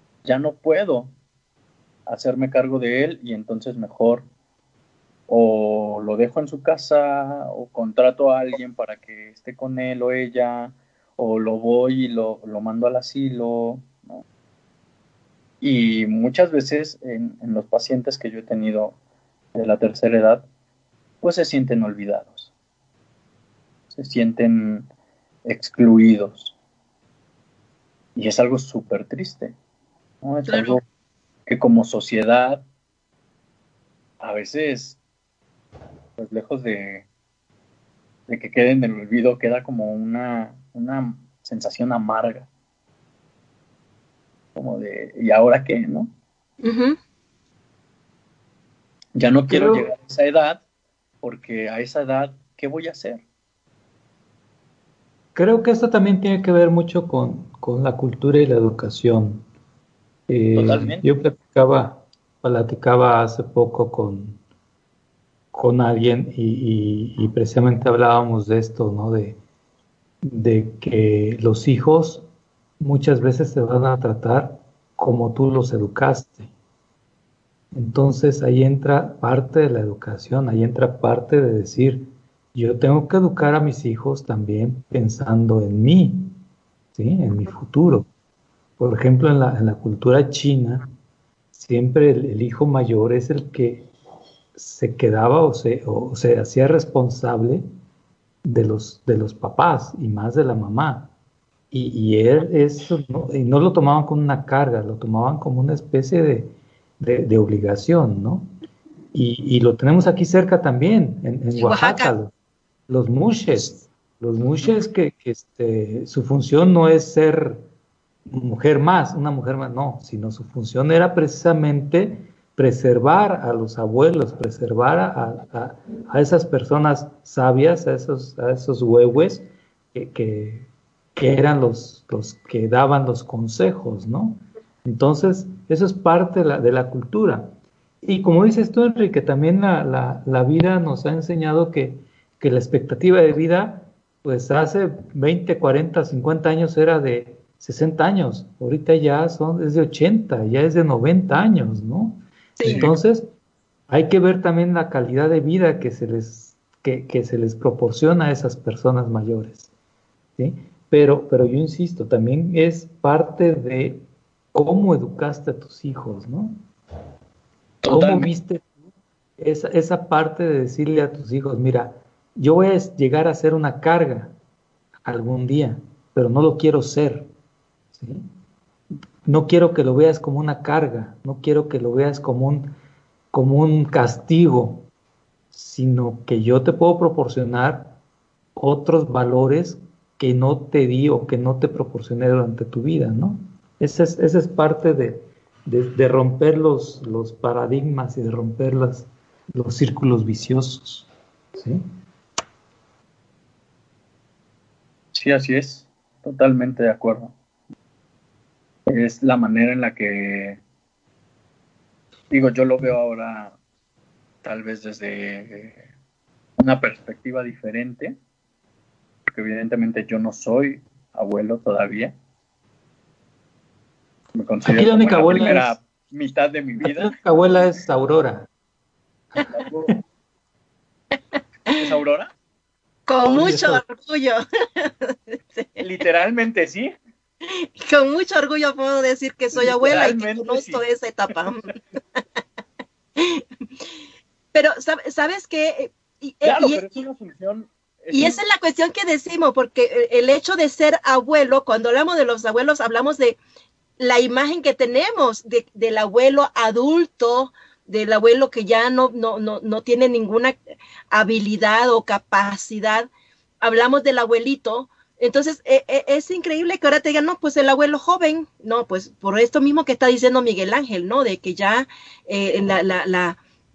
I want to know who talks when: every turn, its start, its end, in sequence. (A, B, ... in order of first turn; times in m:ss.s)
0:00.2-0:01.1 A
0:02.0-0:04.3 A
0:05.3-0:14.2 A
0:15.6-0:19.0 A
0:19.5-0:20.4 A
0:21.2-0:22.5 A
0:23.9-0:24.9 A
0:25.4-0:26.5 A
0:28.2-0:29.6 A
0:30.2-0:30.8 A
0:30.5-0:30.8 B
0:31.5-0:32.6 A
0:34.2-0:35.0 A
0:36.2-0:37.0 A
0:38.3-0:42.5 A
0:44.5-0:46.1 A
0:46.6-0:47.0 B
0:49.1-0:50.6 A
0:49.5-0:49.9 C
0:51.2-0:53.2 A
0:55.3-0:59.4 C
1:00.3-1:04.4 C
1:00.5-1:01.0 A
1:05.5-1:09.4 C
1:10.2-1:12.2 C
1:12.8-1:16.5 C
1:17.7-1:26.4 C
1:27.0-1:28.1 C
1:28.8-1:30.8 C
1:31.5-1:33.9 C
1:34.5-1:37.7 C
1:38.4-1:41.1 C
1:41.7-1:48.5 C
1:49.1-1:52.3 C
1:51.5-1:52.1 B
1:52.9-1:57.6 C
1:58.3-2:33.3 C
2:32.6-2:32.8 B
2:32.6-2:32.9 A
2:33.9-2:39.7 C
2:40.4-2:46.6 C
2:47.8-2:48.3 A
2:47.9-2:48.7 C
2:49.4-2:54.3 C
2:55.0-2:57.3 C
2:57.9-2:58.3 C
2:59.2-3:02.7 C
3:03.3-3:04.9 C
3:05.5-3:08.0 C
3:08.6-3:21.8 C
3:25.1-3:27.3 A
3:28.9-3:30.6 A
3:32.3-3:33.6 A
3:34.4-3:35.8 A
3:36.6-3:38.2 A
3:39.3-3:42.1 A
3:44.3-3:47.2 A
3:44.6-3:45.7 C
3:46.8-3:48.5 C
3:49.5-3:50.0 A
3:51.8-3:52.3 A
3:53.1-3:55.8 B
3:53.3-3:53.8 C
3:55.8-3:56.9 A
3:57.4-4:01.7 B
3:59.5-4:00.8 A
4:03.2-4:03.4 B
4:04.5-4:06.9 B
4:06.4-4:08.4 A
4:08.1-4:13.4 B
4:14.0-4:20.5 B
4:21.1-4:23.1 B
4:23.6-4:33.4 B